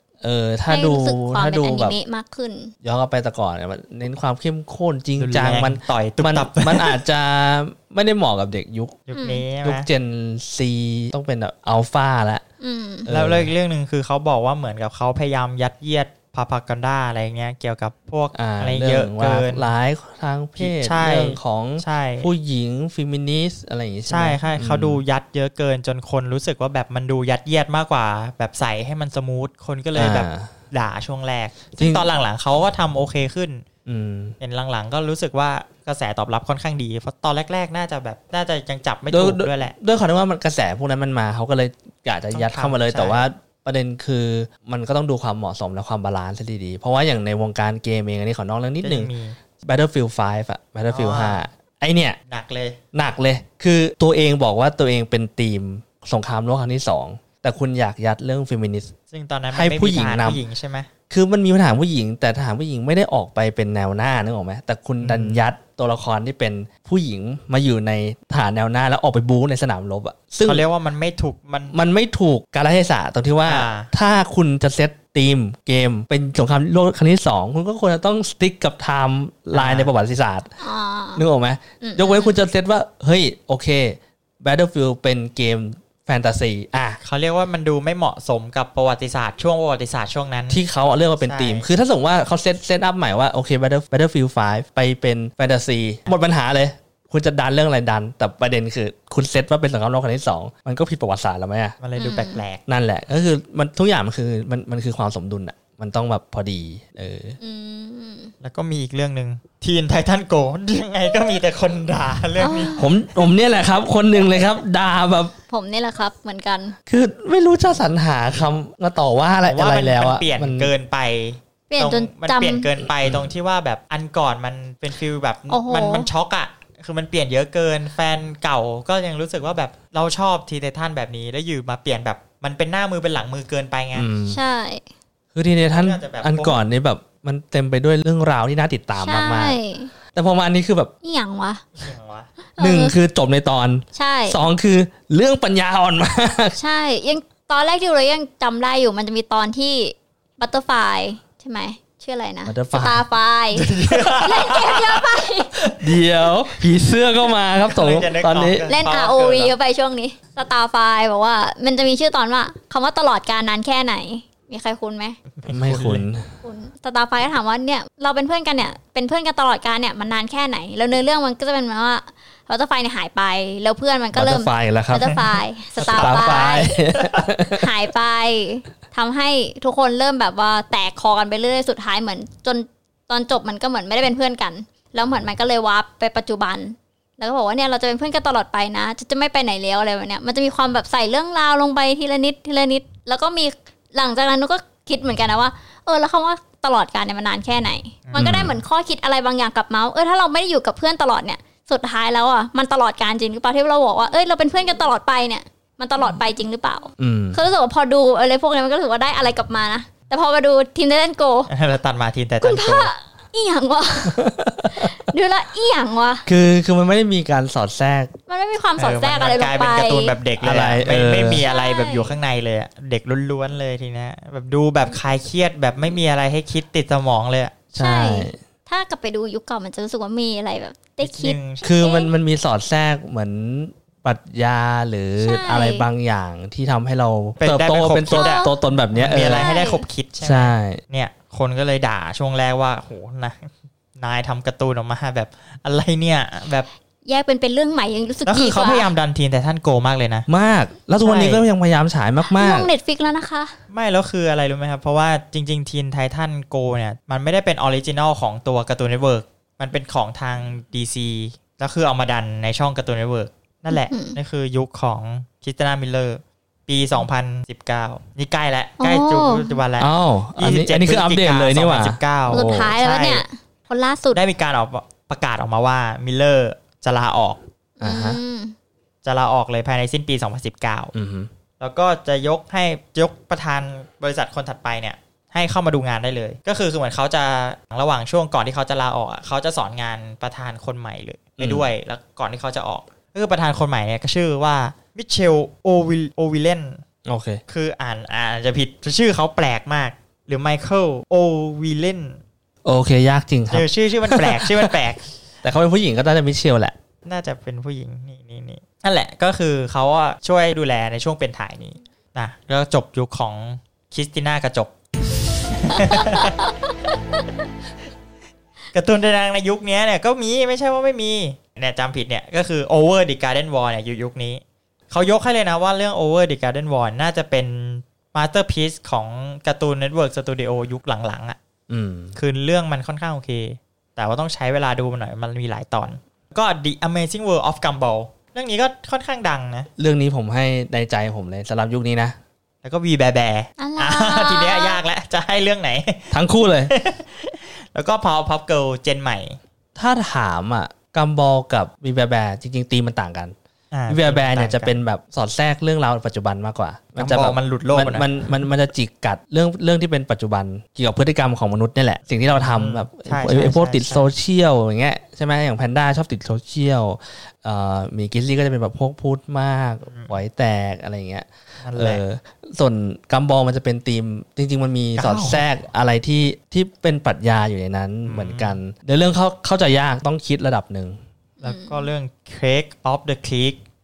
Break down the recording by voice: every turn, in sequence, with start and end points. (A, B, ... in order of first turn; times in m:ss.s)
0:00.2-0:02.0 A
0:00.7-0:02.7 B
0:02.8-0:09.0 A
0:05.2-0:07.0 C
0:09.1-0:09.9 C
0:09.2-0:09.4 B
0:09.6-0:12.4 A
0:12.6-0:13.1 B
0:13.0-0:13.5 A
0:13.1-0:19.6 C
0:18.3-0:25.0 A
0:20.6-0:22.3 C
0:24.1-0:33.6 C
0:29.9-0:30.5 A
0:31.8-0:32.0 A
0:33.8-0:34.4 A
0:34.4-0:39.7 C
0:39.1-0:49.1 A
0:42.3-0:43.2 C
0:48.8-0:49.4 C
0:49.6-0:52.2 A
0:50.9-0:51.4 C
0:52.3-0:52.8 C
0:52.9-0:58.9 A
0:59.1-1:00.9 C
0:59.5-1:00.4 A
1:01.1-1:10.6 A
1:05.0-1:05.4 C
1:10.4-1:11.7 C
1:11.7-1:20.5 A
1:13.4-1:13.9 C
1:19.5-1:19.9 C
1:20.6-1:21.2 B
1:21.2-1:27.0 A
1:21.8-1:22.4 B
1:27.0-1:30.6 C
1:30.5-1:41.8 A
1:31.2-1:31.7 C
1:41.8-1:42.6 C
1:42.0-1:42.4 B
1:42.7-1:47.4 A
1:47.4-1:48.3 B
1:48.4-1:52.8 C
1:52.4-1:52.9 B
1:52.8-1:55.3 A
1:55.5-1:56.8 B
1:56.9-2:00.7 A
1:59.5-2:14.1 C
2:01.7-2:02.6 B
2:03.0-2:03.3 A
2:05.5-2:06.1 B
2:13.9-2:14.4 A
2:14.3-2:14.8 B
2:15.3-2:19.6 A
2:15.7-2:16.6 C
2:19.0-2:19.9 B
2:20.1-2:20.9 A
2:21.0-2:21.7 B
2:21.8-2:22.3 C
2:22.6-2:23.0 B
2:22.6-2:26.6 A
2:23.9-2:24.4 B
2:26.6-2:35.6 B
2:32.4-2:33.0 A
2:33.5-2:35.8 C
2:35.8-2:38.7 A
2:37.6-2:39.5 C
2:38.7-2:45.2 B
2:45.4-2:46.0 C
2:45.5-2:46.3 A
2:46.4-2:56.8 B
2:54.1-2:55.1 A
2:55.8-2:57.2 C
2:55.9-2:57.7 A
2:57.5-3:31.5 B
3:18.0-3:18.4 C
3:18.2-3:18.6 A
3:27.0-3:27.4 A
3:31.5-3:32.9 C
3:32.4-3:34.2 B
3:34.0-3:34.9 A
3:34.7-3:36.3 B
3:36.2-3:38.1 A
3:38.3-3:40.1 B
3:38.8-3:47.5 C
3:40.4-3:41.4 A
3:41.4-3:42.1 B
3:47.7-3:48.4 A
3:47.8-3:52.1 B
3:51.0-3:51.6 C
3:51.6-3:59.5 A
3:55.2-3:55.8 B
3:57.4-4:06.7 C
3:58.2-3:58.6 B
3:59.2-3:59.8 B
4:00.2-4:00.8 A
4:07.0-4:08.9 B
4:08.2-4:10.3 C
4:10.3-4:12.7 A
4:11.0-4:11.4 C
4:12.2-4:13.5 B
4:13.7-4:33.2 C
4:23.7-4:24.2 B
4:28.8-4:29.6 B
4:29.8-4:32.8 A
4:32.3-4:34.2 B
4:34.1-4:37.4 C
4:37.8-4:38.2 A
4:37.8-4:38.5 B
4:39.0-4:40.9 C
4:40.9-4:41.3 A
4:41.6-4:56.8 C
4:51.4-4:51.7 A
4:57.0-4:57.4 A
4:57.5-5:02.2 C
5:02.6-5:04.8 A
5:03.5-5:05.1 C
5:05.4-5:06.7 A
5:07.0-5:14.7 C
5:15.4-5:16.5 C
5:18.7-5:31.4 C
5:31.7-5:32.2 A
5:32.1-5:39.7 C
5:39.8-5:42.2 A
5:42.6-5:46.1 C
5:43.6-5:44.8 B
5:46.1-5:46.7 A
5:46.7-5:49.4 C
5:49.8-5:53.4 A
5:53.7-5:54.7 C
5:53.9-6:21.0 A
5:57.0-5:58.3 C
6:02.3-6:04.1 C
6:09.8-6:10.2 C
6:11.6-6:12.0 C
6:15.0-6:15.4 C
6:18.0-6:18.6 C
6:21.4-6:21.9 B
6:21.4-6:23.6 C